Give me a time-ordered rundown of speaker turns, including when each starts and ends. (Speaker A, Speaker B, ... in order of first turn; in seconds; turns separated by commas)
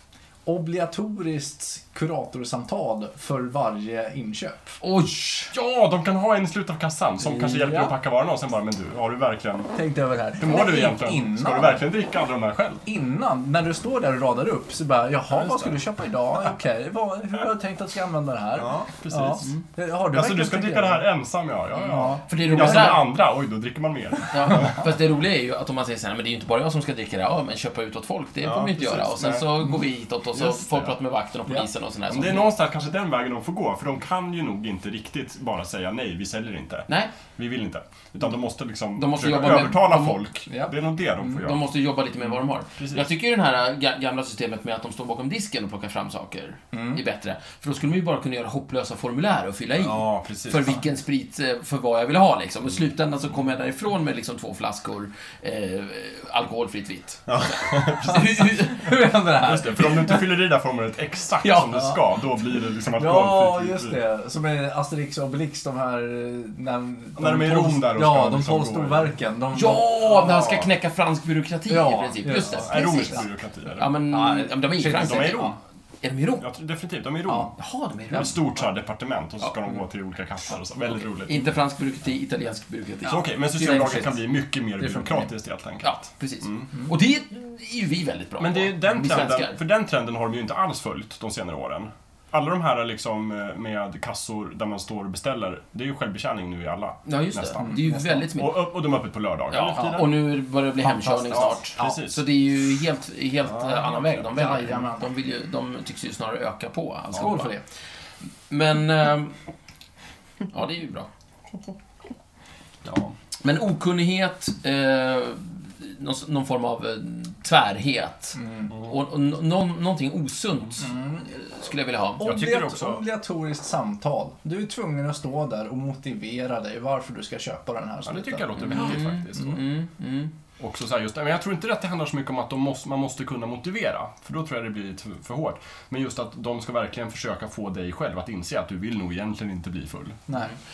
Speaker A: 0.4-4.7, Speaker B: 4.8-5.5, Speaker C: 5.5-9.7, Speaker A: 7.3-7.9, Speaker A: 9.7-11.8, Speaker C: 10.4-12.8, Speaker A: 12.8-21.1, Speaker C: 15.3-15.7, Speaker C: 18.6-19.5, Speaker C: 20.1-24.8, Speaker A: 21.8-23.0, Speaker B: 22.3-23.0, Speaker B: 24.3-32.5, Speaker C: 28.4-29.5, Speaker C: 30.3-30.9, Speaker C: 32.1-41.6, Speaker B: 36.9-37.1, Speaker B: 39.0-40.2, Speaker A: 40.5-41.4, Speaker B: 41.4-59.0, Speaker C: 42.8-43.0, Speaker A: 46.7-47.0, Speaker C: 49.8-50.8, Speaker C: 57.3-58.2, Speaker A: 58.1-60.2, Speaker C: 59.4-64.0, Speaker B: 61.4-61.9, Speaker A: 62.9-70.2, Speaker C: 67.2-69.1, Speaker B: 69.5-73.2, Speaker C: 70.1-70.7, Speaker A: 71.7-73.2, Speaker C: 72.2-73.9, Speaker B: 73.8-76.5, Speaker A: 74.1-75.6, Speaker C: 74.9-75.5, Speaker C: 76.4-77.5, Speaker B: 77.5-78.3, Speaker C: 78.1-81.4, Speaker B: 81.2-84.2, Speaker C: 83.0-86.7, Speaker A: 84.8-85.3, Speaker B: 85.8-89.6, Speaker C: 88.4-97.8, Speaker B: 97.0-98.6, Speaker A: 97.6-98.3, Speaker C: 98.3-100.1, Speaker B: 99.5-107.5, Speaker A: 100.8-102.0, Speaker C: 101.3-102.2, Speaker C: 103.5-104.3, Speaker A: 104.3-105.1, Speaker A: 107.1-107.6, Speaker B: 108.5-109.3, Speaker B: 110.5-111.1, Speaker C: 112.8-113.1, Speaker B: 113.4-122.3, Speaker A: 118.3-118.7, Speaker A: 120.8-121.4, Speaker A: 122.2-129.6, Speaker C: 122.2-123.0, Speaker C: 128.0-129.6, Speaker B: 128.6-130.3, Speaker C: 130.6-140.2, Speaker A: 140.3-140.5